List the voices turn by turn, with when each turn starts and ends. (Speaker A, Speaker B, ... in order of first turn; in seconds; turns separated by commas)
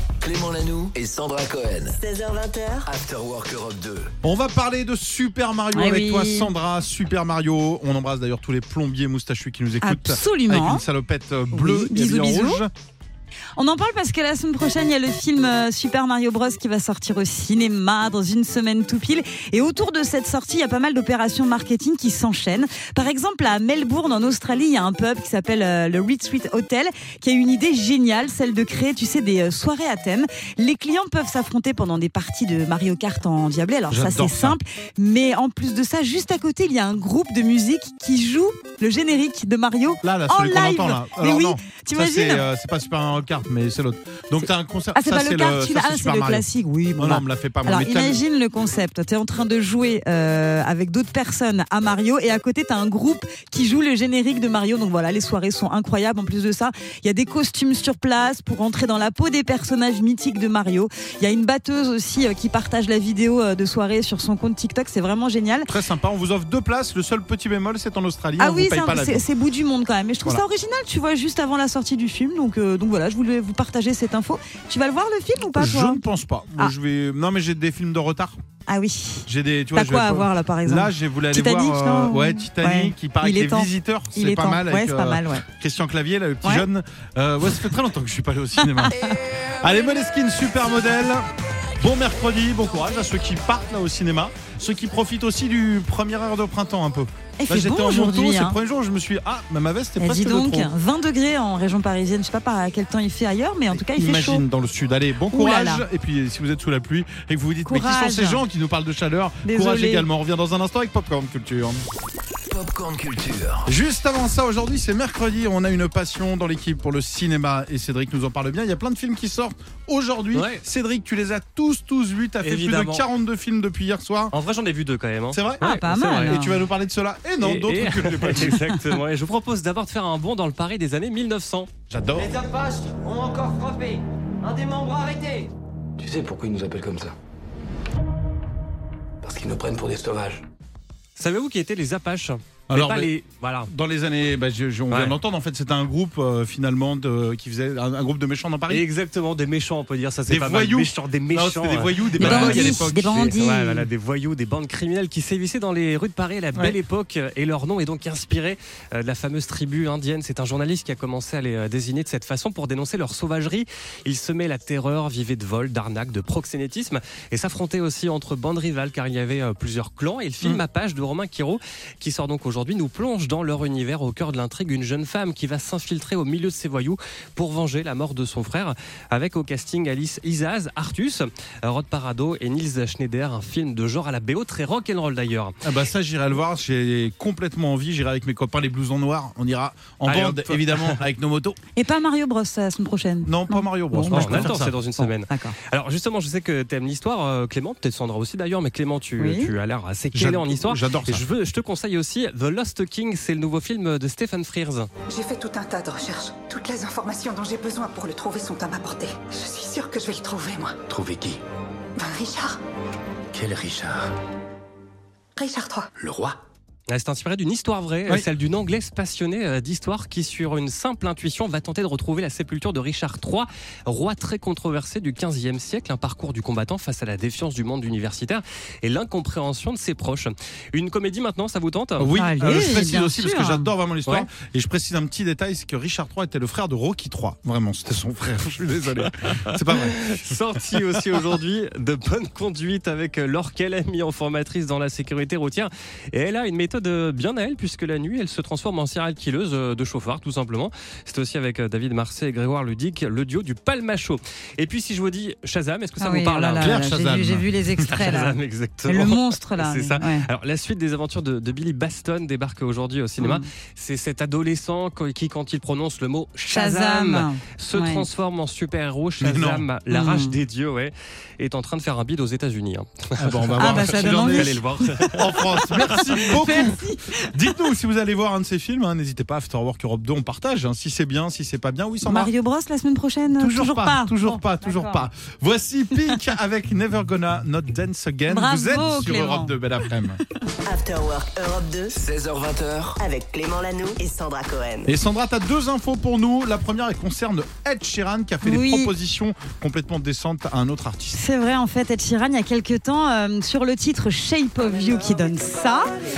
Speaker A: 0.2-2.0, Speaker B: 1.9-2.9, Speaker A: 2.9-4.1, Speaker C: 4.2-12.7, Speaker D: 5.7-6.5, Speaker D: 9.8-10.8, Speaker D: 11.5-12.6, Speaker D: 13.6-42.5, Speaker C: 33.9-34.6, Speaker C: 40.0-46.5, Speaker D: 45.0-65.7, Speaker C: 47.0-48.2, Speaker C: 65.7-69.3, Speaker D: 68.4-76.0, Speaker C: 75.5-78.4, Speaker D: 78.7-85.4, Speaker C: 79.3-89.0, Speaker D: 88.6-89.2, Speaker C: 89.6-91.3, Speaker C: 91.8-100.7, Speaker D: 97.4-98.6, Speaker D: 100.0-104.4, Speaker C: 103.7-111.8, Speaker D: 105.3-105.8, Speaker D: 107.7-108.4, Speaker D: 109.4-110.1, Speaker A: 112.5-113.7, Speaker C: 113.7-124.3, Speaker E: 120.3-120.6, Speaker E: 122.4-123.0, Speaker E: 124.3-126.4, Speaker C: 125.3-125.6, Speaker D: 125.6-126.6, Speaker C: 126.2-128.8, Speaker E: 127.4-131.7, Speaker C: 131.9-132.3, Speaker F: 132.2-135.5, Speaker G: 136.0-137.2, Speaker G: 139.2-140.5, Speaker E: 141.2-143.7, Speaker C: 142.7-143.1, Speaker C: 143.7-148.9, Speaker E: 144.9-145.2, Speaker E: 148.7-185.6, Speaker C: 150.3-153.3, Speaker D: 152.2-153.9, Speaker C: 185.6-191.6, Speaker E: 190.1-191.0, Speaker D: 191.8-194.5, Speaker C: 193.2-195.1, Speaker E: 194.1-204.9, Speaker D: 195.3-195.6, Speaker D: 199.2-199.5, Speaker C: 200.1-201.2, Speaker H: 205.1-210.8, Speaker G: 210.9-211.4, Speaker H: 212.0-212.6, Speaker G: 213.3-214.1, Speaker H: 215.4-215.9, Speaker G: 216.0-216.4, Speaker E: 216.9-232.1, Speaker C: 232.0-240.2, Speaker D: 232.1-233.7, Speaker E: 239.2-256.8, Speaker D: 256.0-258.4, Speaker C: 256.6-257.9, Speaker E: 257.9-276.0, Speaker D: 258.9-260.3, Speaker D: 263.2-263.4, Speaker D: 266.5-268.0, Speaker C: 269.2-269.7, Speaker D: 269.9-270.4, Speaker C: 273.2-282.3, Speaker D: 273.6-274.6, Speaker D: 276.1-277.3, Speaker D: 282.0-285.1, Speaker C: 283.4-290.2, Speaker D: 288.3-289.5, Speaker B: 290.7-291.9, Speaker A: 291.9-293.0, Speaker B: 293.0-294.9, Speaker C: 294.9-301.2, Speaker D: 298.4-298.9, Speaker D: 301.1-305.9